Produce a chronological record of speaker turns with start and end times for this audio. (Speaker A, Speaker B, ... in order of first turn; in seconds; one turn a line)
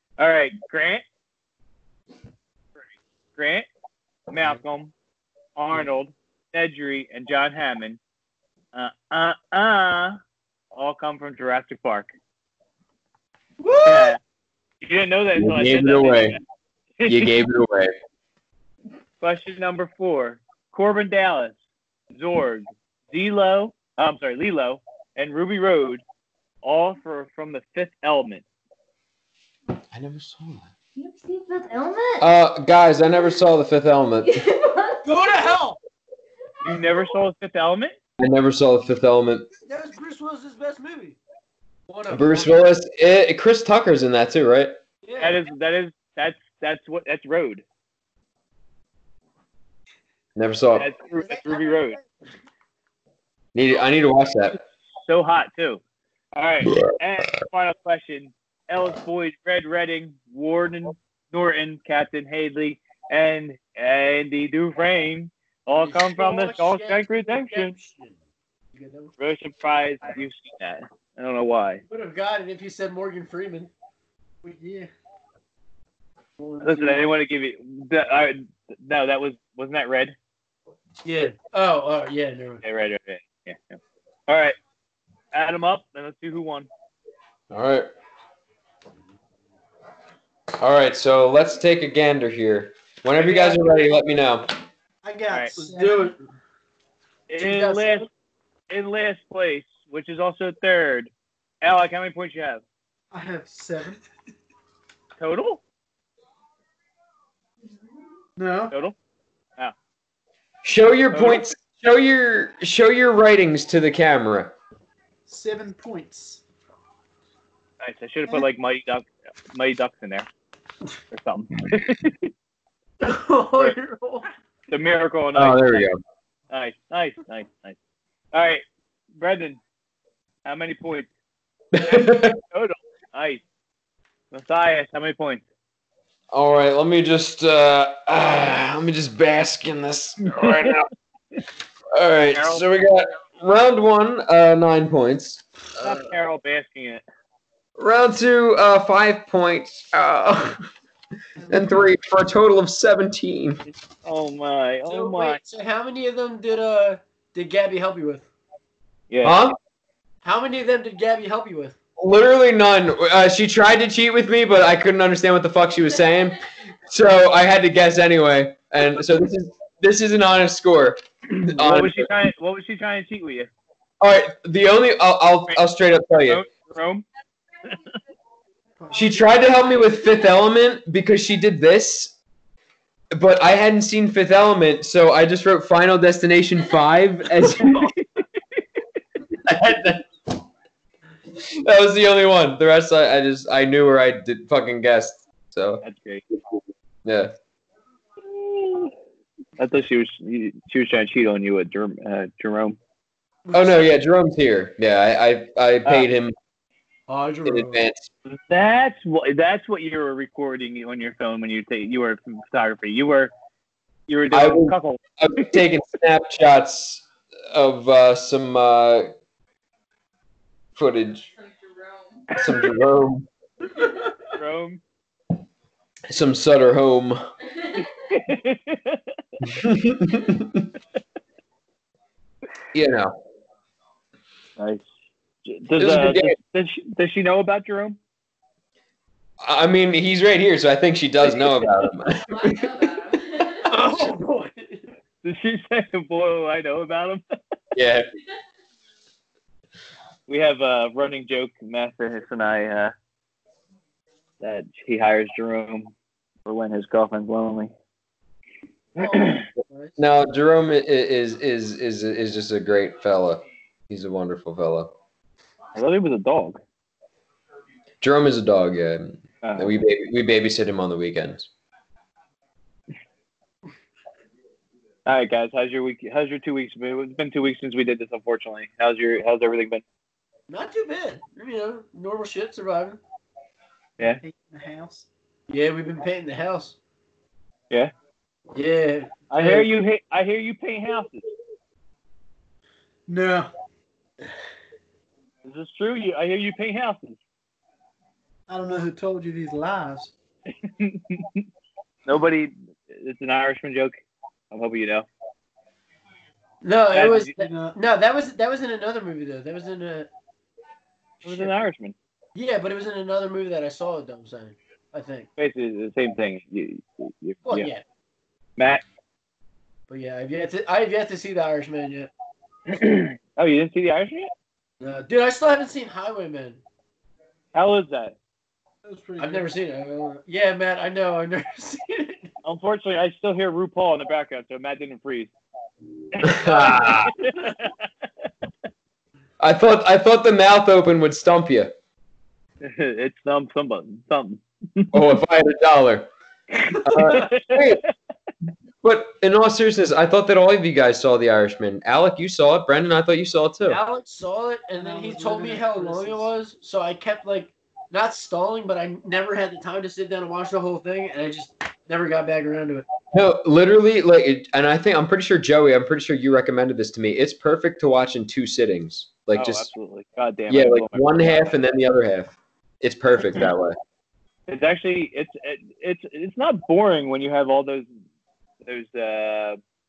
Speaker A: 0.2-1.0
Speaker A: 3.4-3.7
Speaker A: 4.3-4.9
Speaker A: 5.5-8.0
Speaker A: 8.7-10.2
Speaker A: 10.7-12.1
Speaker B: 13.6-14.2
Speaker A: 13.8-14.2
Speaker A: 14.8-16.4
Speaker C: 15.3-16.4
Speaker A: 17.0-17.3
Speaker C: 17.1-17.9
Speaker A: 19.2-21.6
Speaker A: 22.1-26.0
Speaker A: 26.6-28.4
Speaker C: 29.9-30.7
Speaker D: 30.9-32.3
Speaker C: 32.2-34.4
Speaker D: 34.2-35.5
Speaker B: 35.0-35.8
Speaker A: 36.6-38.0
Speaker C: 38.2-39.5
Speaker B: 39.6-41.2
Speaker B: 41.9-42.6
Speaker C: 42.1-44.8
Speaker B: 45.0-45.4
Speaker A: 45.2-47.6
Speaker C: 50.4-50.9
Speaker A: 50.7-52.0
Speaker B: 51.2-52.0
Speaker C: 53.5-54.6
Speaker A: 55.0-55.8
Speaker A: 56.3-67.7
Speaker B: 65.8-68.2
Speaker B: 68.7-69.1
Speaker A: 69.2-71.8
Speaker B: 71.9-73.7
Speaker E: 74.4-74.9
Speaker B: 76.4-77.0
Speaker A: 76.6-80.1
Speaker B: 81.0-82.6
Speaker A: 82.6-84.5
Speaker A: 85.3-86.7
Speaker C: 87.5-87.9
Speaker C: 90.6-94.5
Speaker A: 93.2-93.6
Speaker E: 95.0-96.2
Speaker A: 95.3-95.5
Speaker B: 95.5-96.2
Speaker A: 97.3-98.1
Speaker B: 97.4-98.1
Speaker A: 98.7-101.1
Speaker A: 101.6-102.6
Speaker E: 103.1-104.0
Speaker A: 105.2-105.6
Speaker E: 108.4-108.7
Speaker C: 110.6-114.5
Speaker A: 111.1-111.5
Speaker E: 115.2-116.4
Speaker A: 117.8-120.3
Speaker A: 121.1-122.3
Speaker B: 123.0-124.2
Speaker A: 124.7-125.9
Speaker C: 125.3-126.0
Speaker A: 126.5-127.8
Speaker A: 128.3-128.6
Speaker A: 129.2-129.6
Speaker A: 130.4-131.1
Speaker C: 131.7-132.4
Speaker A: 131.8-133.4
Speaker A: 134.3-135.4
Speaker C: 136.3-140.9
Speaker A: 140.2-140.8
Speaker C: 141.9-146.0
Speaker A: 142.3-142.6
Speaker A: 145.8-147.0
Speaker C: 147.8-150.7
Speaker E: 151.4-151.9
Speaker C: 151.5-153.6
Speaker A: 154.0-155.4
Speaker B: 154.9-158.3
Speaker A: 159.1-159.5
Speaker C: 159.2-159.6
Speaker B: 160.2-161.8
Speaker C: 162.0-172.1
Speaker A: 171.3-173.5
Speaker C: 174.0-176.4
Speaker A: 176.1-177.1
Speaker E: 178.8-179.4
Speaker C: 178.9-182.1
Speaker C: 183.1-187.9
Speaker C: 189.4-190.1
Speaker C: 191.4-195.8
Speaker A: 195.8-196.2
Speaker C: 197.0-197.3
Speaker A: 198.2-198.9
Speaker A: 199.6-202.8
Speaker B: 203.4-203.9
Speaker C: 203.5-206.3
Speaker B: 207.1-207.8
Speaker C: 207.4-208.1
Speaker A: 208.2-213.3
Speaker A: 214.1-215.5
Speaker C: 214.3-219.1
Speaker C: 220.8-221.3
Speaker D: 221.4-222.2
Speaker C: 222.3-223.3
Speaker A: 224.3-224.8
Speaker C: 226.1-227.2
Speaker A: 228.1-229.0
Speaker C: 229.4-230.7
Speaker C: 232.7-233.1
Speaker A: 234.6-234.9
Speaker A: 235.4-238.0
Speaker C: 235.8-236.3
Speaker C: 239.4-242.7
Speaker D: 242.2-243.7
Speaker B: 243.6-244.9
Speaker A: 245.2-247.2
Speaker C: 247.7-248.1
Speaker A: 250.3-252.9
Speaker A: 254.4-255.9
Speaker A: 256.4-257.7
Speaker B: 259.0-260.0
Speaker A: 259.0-259.4
Speaker C: 260.0-264.9
Speaker A: 265.7-266.6
Speaker C: 268.0-271.5
Speaker A: 269.4-269.7
Speaker A: 275.1-279.8
Speaker B: 280.5-283.0
Speaker E: 284.2-285.1
Speaker B: 285.5-286.8
Speaker B: 288.5-289.7
Speaker A: 289.3-291.2
Speaker E: 293.1-293.5
Speaker A: 295.4-297.2
Speaker E: 298.5-300.1
Speaker A: 300.6-301.4
Speaker A: 302.1-304.0
Speaker A: 304.5-305.1
Speaker B: 306.6-310.1
Speaker A: 306.9-307.3
Speaker E: 307.4-307.8
Speaker B: 311.2-311.5
Speaker A: 311.2-311.9
Speaker B: 312.3-315.3
Speaker A: 315.4-317.7
Speaker B: 317.5-317.8
Speaker A: 318.6-318.8
Speaker B: 319.9-322.1
Speaker A: 322.7-324.3
Speaker B: 324.8-326.6
Speaker A: 327.5-328.1
Speaker E: 328.8-329.5
Speaker B: 329.2-332.3
Speaker A: 332.4-335.3
Speaker A: 336.1-337.8
Speaker C: 336.2-337.1
Speaker C: 339.4-341.7
Speaker A: 342.6-345.0
Speaker C: 344.9-346.1
Speaker A: 346.6-347.7
Speaker C: 346.8-347.8
Speaker C: 348.8-353.8
Speaker B: 353.6-362.9
Speaker E: 354.8-356.3
Speaker C: 363.1-369.7
Speaker A: 369.3-371.5
Speaker C: 370.5-373.8
Speaker A: 374.5-377.9
Speaker A: 378.6-379.6